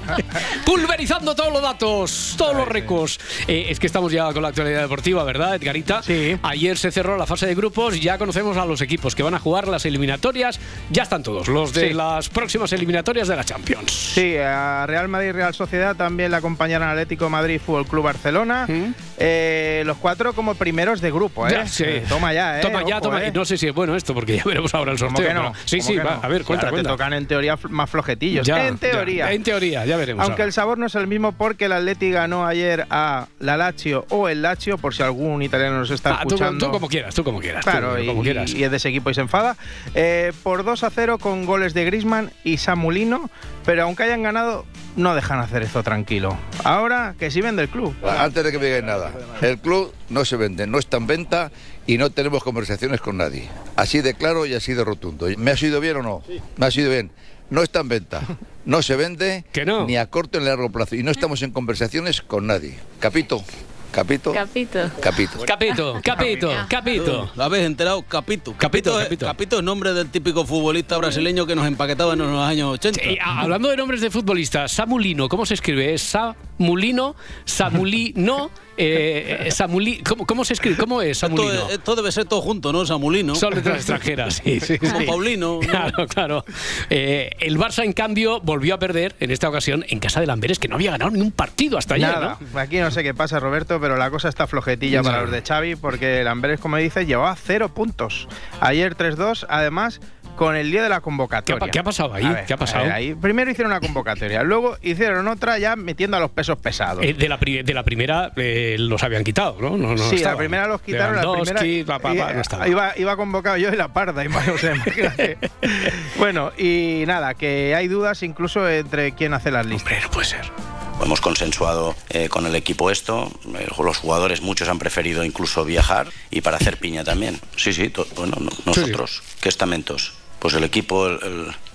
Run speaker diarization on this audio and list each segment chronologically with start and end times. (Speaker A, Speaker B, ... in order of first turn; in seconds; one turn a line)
Speaker A: 0.4-14.2
Speaker B: 2.5-2.8
Speaker B: 6.0-6.4
Speaker B: 14.1-23.4
Speaker A: 18.7-18.9
Speaker A: 21.4-27.0
Speaker B: 25.1-29.4
Speaker A: 28.4-30.4
Speaker B: 30.2-36.8
Speaker A: 36.1-38.5
Speaker B: 37.6-48.2
Speaker C: 48.0-64.4
Speaker A: 59.5-60.0
Speaker C: 65.0-65.4
Speaker A: 65.4-67.3
Speaker D: 66.2-73.2
Speaker A: 68.6-69.3
Speaker A: 72.9-81.7
Speaker D: 81.2-83.8
Speaker A: 83.3-92.4
Speaker D: 84.8-86.0
Speaker B: 91.9-107.1
Speaker A: 94.9-95.3
Speaker A: 101.5-103.0
Speaker A: 107.0-112.7
Speaker B: 110.0-119.8
Speaker A: 119.8-120.5
Speaker E: 121.0-131.6
Speaker A: 128.7-129.0